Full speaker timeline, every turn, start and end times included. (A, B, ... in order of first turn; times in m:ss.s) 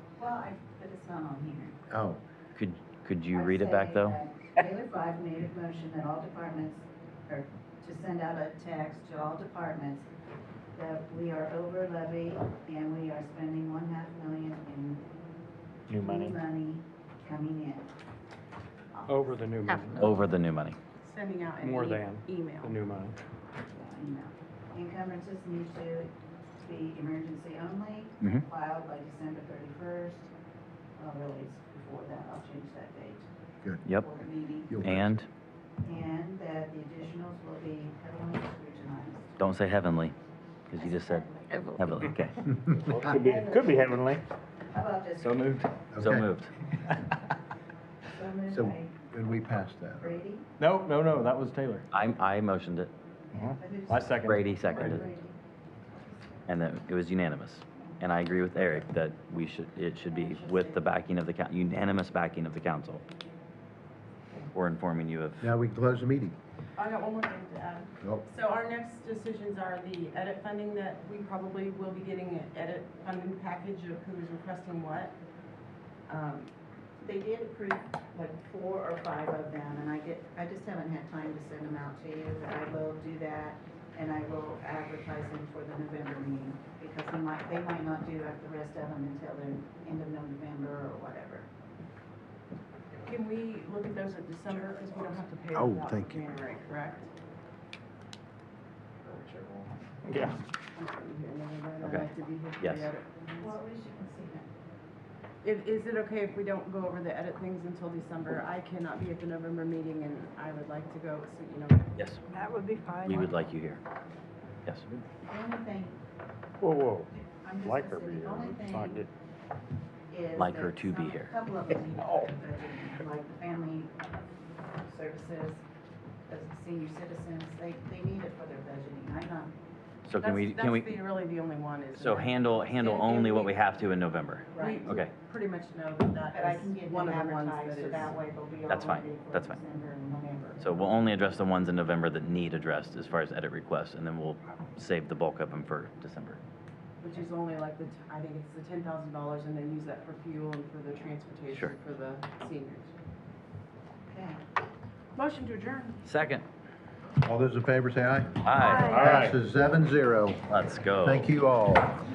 0:00.2-0:01.8 A
0:01.9-0:02.2 B
0:02.6-0:04.2 C
0:03.3-0:10.1 A
0:10.8-0:15.0 A
0:15.9-0:16.4 D
0:16.0-0:17.9 A
0:18.9-0:19.4 A
0:19.1-0:20.1 D
0:20.0-0:20.8 C
0:21.0-0:22.8 E
0:21.6-0:23.2 D
0:23.7-0:26.1 A
0:26.6-0:30.3 A
0:31.0-0:33.3 A
0:33.9-0:34.8 A
0:34.7-0:35.2 B
0:34.8-0:35.3 C
0:35.8-0:39.4 A
0:39.4-0:40.2 C
0:40.7-0:42.4 C
0:40.8-0:41.8 A
0:41.5-0:42.1 F
0:42.8-0:44.2 D
0:43.1-0:43.9 A
0:44.7-0:45.4 A
0:45.2-0:45.7 D
0:45.9-0:46.3 B
0:46.0-0:46.5 C
0:48.1-0:49.0 A
0:48.5-0:50.1 B
0:50.0-0:50.5 A
0:50.6-0:51.8 D
0:51.9-0:52.9 C
0:53.3-0:55.0 D
0:53.5-0:56.5 A
0:54.2-0:55.0 C
0:56.5-1:03.0 C
1:00.1-1:00.8 A
1:04.5-1:05.5 C
1:05.4-1:06.4 B
1:06.8-1:15.2 E
1:16.1-1:16.5 E
1:17.0-1:31.5 A
1:33.0-1:37.1 E
1:35.5-1:36.2 B
1:39.1-1:40.4 D
1:40.8-1:43.6 E
1:41.8-1:42.1 C
1:42.6-1:42.9 C
1:43.4-1:44.5 A
1:45.4-1:51.9 E
1:52.0-1:52.2 C
1:52.3-1:53.4 F
1:53.0-1:53.8 C
1:55.3-1:56.0 A
1:56.6-1:57.1 D
1:57.1-1:59.0 A
1:57.6-1:59.1 D
2:00.1-2:03.9 A
2:00.4-2:01.3 C
2:04.9-2:05.6 A
2:06.3-2:09.5 A
2:10.1-2:11.0 C
2:10.2-2:13.6 E
2:11.9-2:15.1 C
2:14.5-2:15.0 A
2:14.6-2:18.2 E
2:16.3-2:20.8 A
2:18.7-2:19.6 C
2:20.6-2:26.4 C
2:27.0-2:32.9 E
2:34.1-2:34.4 A
2:35.2-2:36.0 E
2:36.0-2:36.4 C
2:37.2-2:40.4 B
2:38.4-2:39.0 C
2:38.6-2:39.0 F
2:38.9-2:39.4 D
2:40.5-2:41.3 C
2:41.0-2:42.0 B